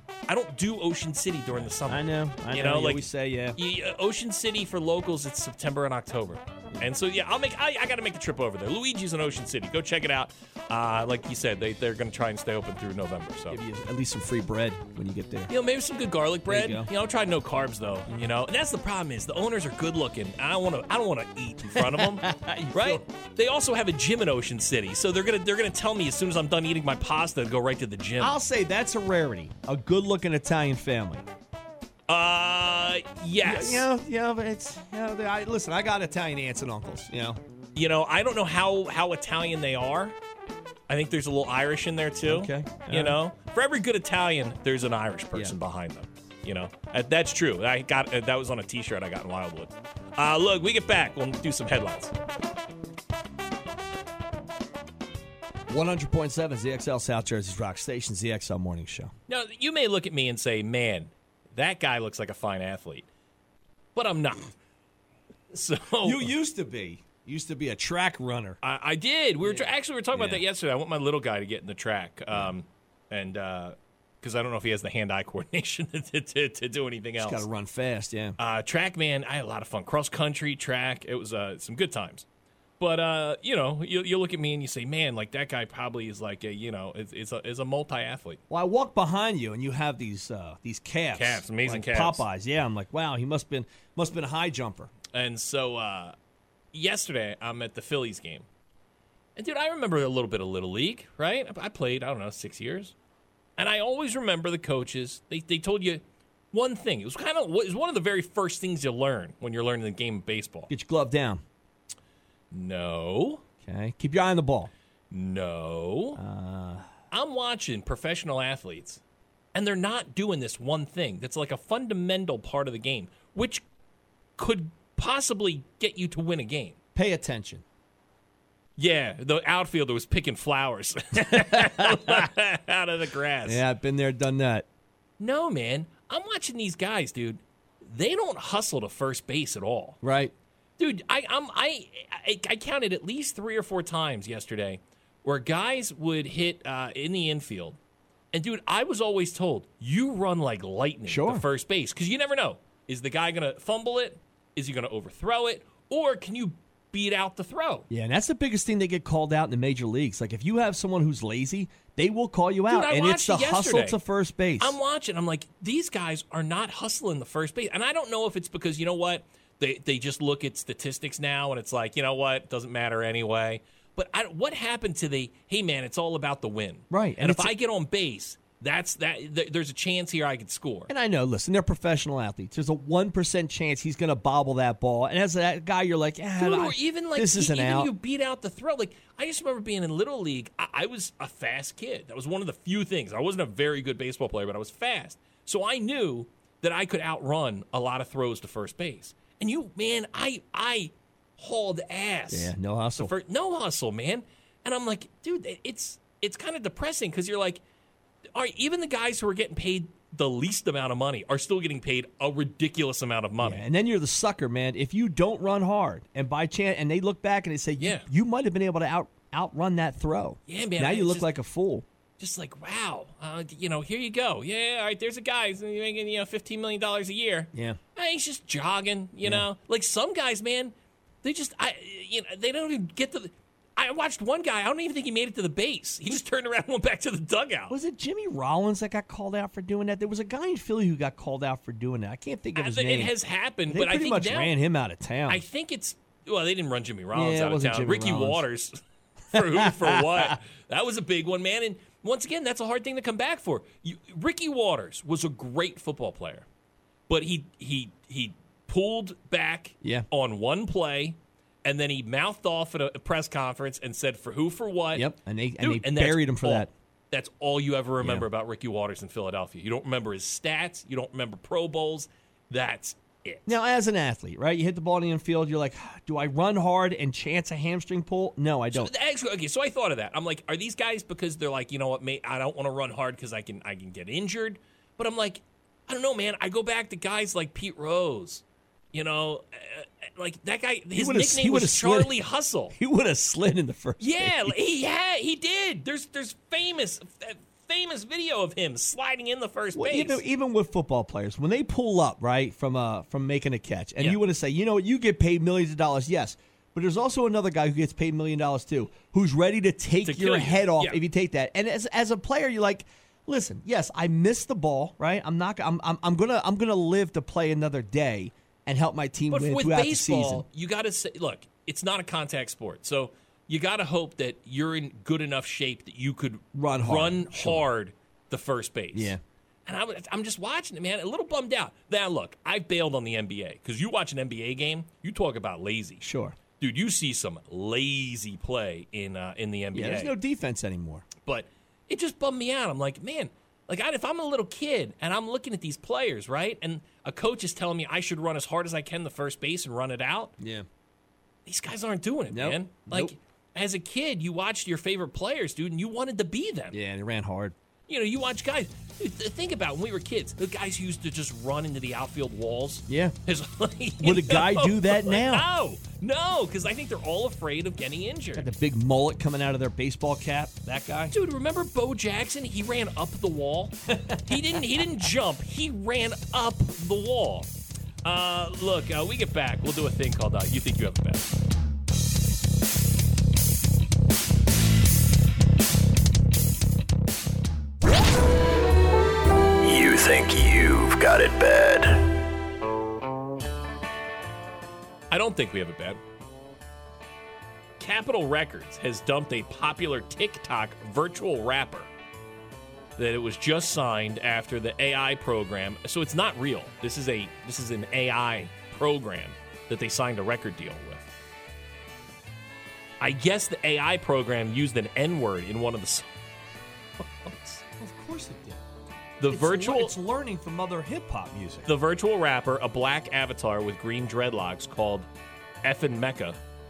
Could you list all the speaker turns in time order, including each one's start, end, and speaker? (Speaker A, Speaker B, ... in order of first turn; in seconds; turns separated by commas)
Speaker A: 0.3-13.6, Speaker B: 1.5-3.6, Speaker B: 13.5-15.5, Speaker A: 15.5-28.4, Speaker B: 16.5-16.9, Speaker B: 18.1-18.3, Speaker B: 21.7-23.0, Speaker B: 28.2-31.3, Speaker A: 32.1-33.9, Speaker B: 33.4-37.4, Speaker A: 37.8-40.1, Speaker A: 40.9-52.1, Speaker B: 42.2-43.2, Speaker B: 55.7-59.1, Speaker A: 59.3-63.1, Speaker A: 64.0-64.5, Speaker A: 65.5-66.3, Speaker B: 66.0-68.6, Speaker A: 68.6-77.5, Speaker B: 69.4-70.4, Speaker B: 77.2-78.4, Speaker A: 78.4-82.2, Speaker A: 82.8-88.4, Speaker B: 88.5-94.9, Speaker A: 91.1-92.2, Speaker A: 95.1-96.2, Speaker A: 96.7-98.5, Speaker A: 99.4-102.9, Speaker A: 103.6-110.7, Speaker B: 110.7-111.4, Speaker A: 112.5-113.4, Speaker B: 113.6-114.7, Speaker A: 115.1-116.2, Speaker B: 116.2-116.9, Speaker A: 117.1-119.0, Speaker A: 119.5-123.6, Speaker A: 124.4-126.8, Speaker B: 127.0-127.6, Speaker A: 128.8-133.6, Speaker B: 131.2-132.3, Speaker B: 133.4-134.7, Speaker A: 135.2-140.0, Speaker B: 140.0-140.3, Speaker A: 140.8-147.8, Speaker A: 148.3-157.9, Speaker B: 151.1-151.4, Speaker B: 157.9-164.8, Speaker A: 162.7-164.0, Speaker A: 164.6-180.9, Speaker B: 176.9-177.6, Speaker B: 180.9-187.9, Speaker A: 186.4-207.6, Speaker B: 202.3-203.1, Speaker A: 208.3-213.7, Speaker B: 213.4-221.9, Speaker A: 217.8-218.1, Speaker A: 220.5-221.3, Speaker A: 222.2-237.8, Speaker B: 227.5-227.8, Speaker B: 229.2-229.5, Speaker B: 237.7-243.1, Speaker A: 242.6-244.5, Speaker B: 243.7-245.4, Speaker A: 245.3-248.8, Speaker B: 247.1-248.4, Speaker A: 249.3-256.5, Speaker B: 249.3-250.3, Speaker A: 257.1-273.5, Speaker B: 264.9-266.7, Speaker B: 268.0-268.3, Speaker B: 273.5-278.9, Speaker A: 278.7-292.8, Speaker B: 290.9-292.1, Speaker B: 292.7-294.6, Speaker A: 294.0-300.2, Speaker B: 299.8-320.4, Speaker A: 310.0-311.0, Speaker A: 319.3-336.0, Speaker B: 326.5-327.6, Speaker B: 328.9-329.2, Speaker B: 336.0-336.4, Speaker A: 336.6-340.1, Speaker B: 339.7-341.1, Speaker A: 341.2-350.3, Speaker B: 350.4-350.7, Speaker A: 351.5-356.8, Speaker B: 352.3-353.1, Speaker B: 356.7-357.6, Speaker A: 357.9-368.5, Speaker B: 362.9-363.1, Speaker B: 364.0-365.5, Speaker B: 368.4-371.1, Speaker A: 371.1-377.5, Speaker B: 373.9-374.6, Speaker A: 378.0-381.3, Speaker C: 389.6-392.0, Speaker A: 395.1-396.0, Speaker A: 397.8-401.9, Speaker A: 403.0-411.1, Speaker A: 413.0-416.1, Speaker A: 417.0-417.6, Speaker B: 417.8-418.6, Speaker A: 419.2-419.9, Speaker B: 419.3-421.7, Speaker A: 421.7-425.1, Speaker A: 425.6-426.4